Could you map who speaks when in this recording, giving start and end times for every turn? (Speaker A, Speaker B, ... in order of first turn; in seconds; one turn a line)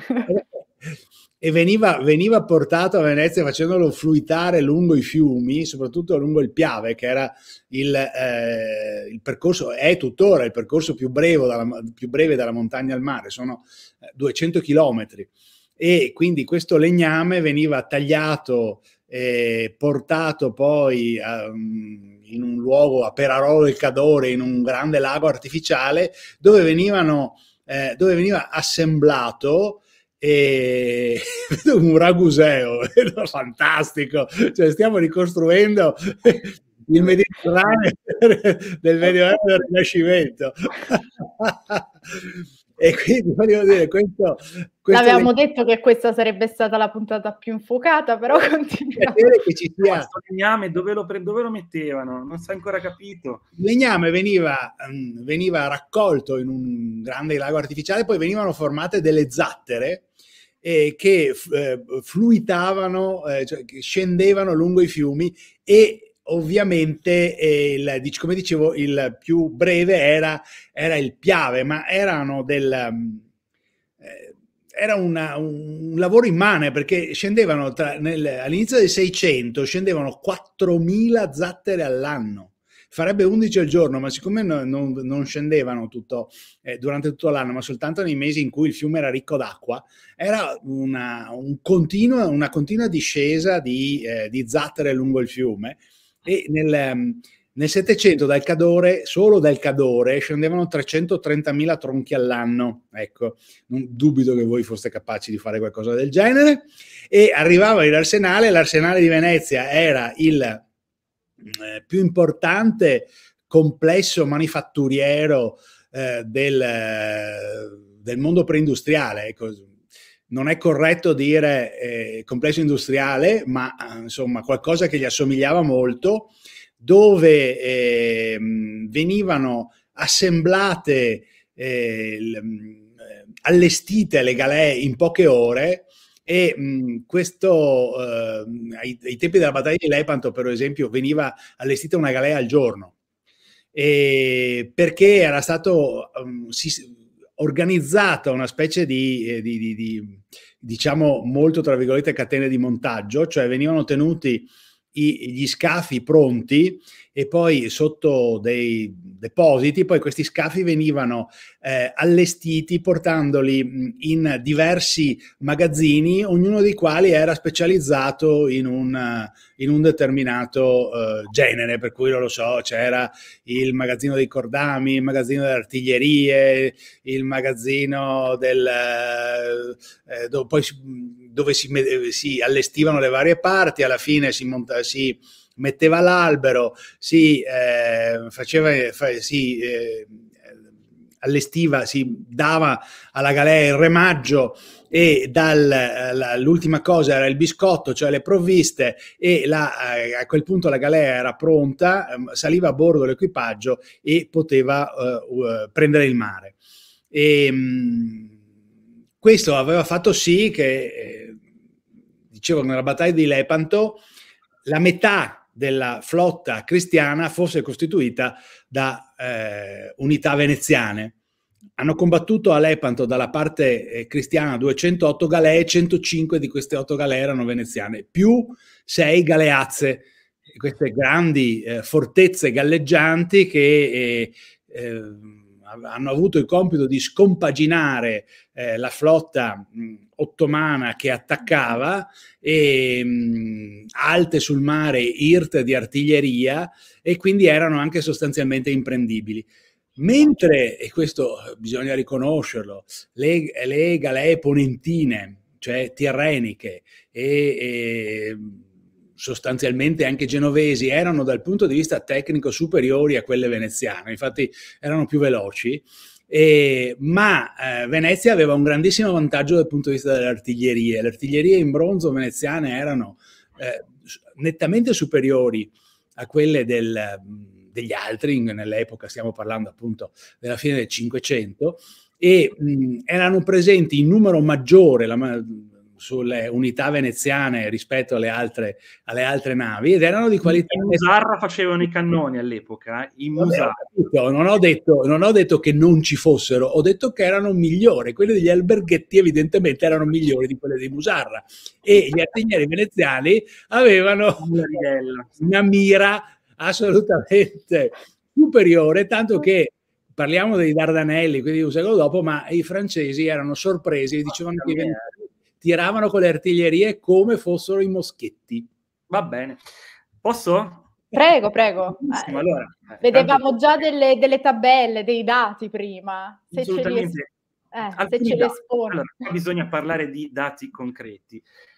Speaker A: 0.3-45.3
Speaker B: 44.9-49.2
Speaker A: 49.0-50.1
Speaker C: 49.8-53.4
Speaker A: 53.6-60.1
Speaker A: 60.6-73.2
Speaker A: 74.0-110.6
Speaker A: 111.4-119.7
Speaker A: 120.3-132.9
Speaker A: 133.4-142.9
Speaker A: 143.7-190.3
Speaker A: 191.2-206.5
Speaker A: 207.1-208.3
Speaker A: 209.2-211.4
Speaker A: 212.3-214.0
Speaker A: 214.6-221.1
Speaker A: 221.8-258.6
Speaker A: 259.2-291.0
Speaker C: 290.5-293.8
Speaker A: 293.4-304.5
Speaker C: 304.4-305.3
Speaker A: 305.4-318.7
Speaker C: 314.4-315.1
Speaker C: 319.1-319.6
Speaker C: 320.2-320.9
Speaker B: 321.1-322.4
Speaker C: 322.0-323.7
Speaker B: 323.0-327.1
Speaker C: 326.5-327.3
Speaker B: 327.7-329.2
Speaker C: 327.9-331.4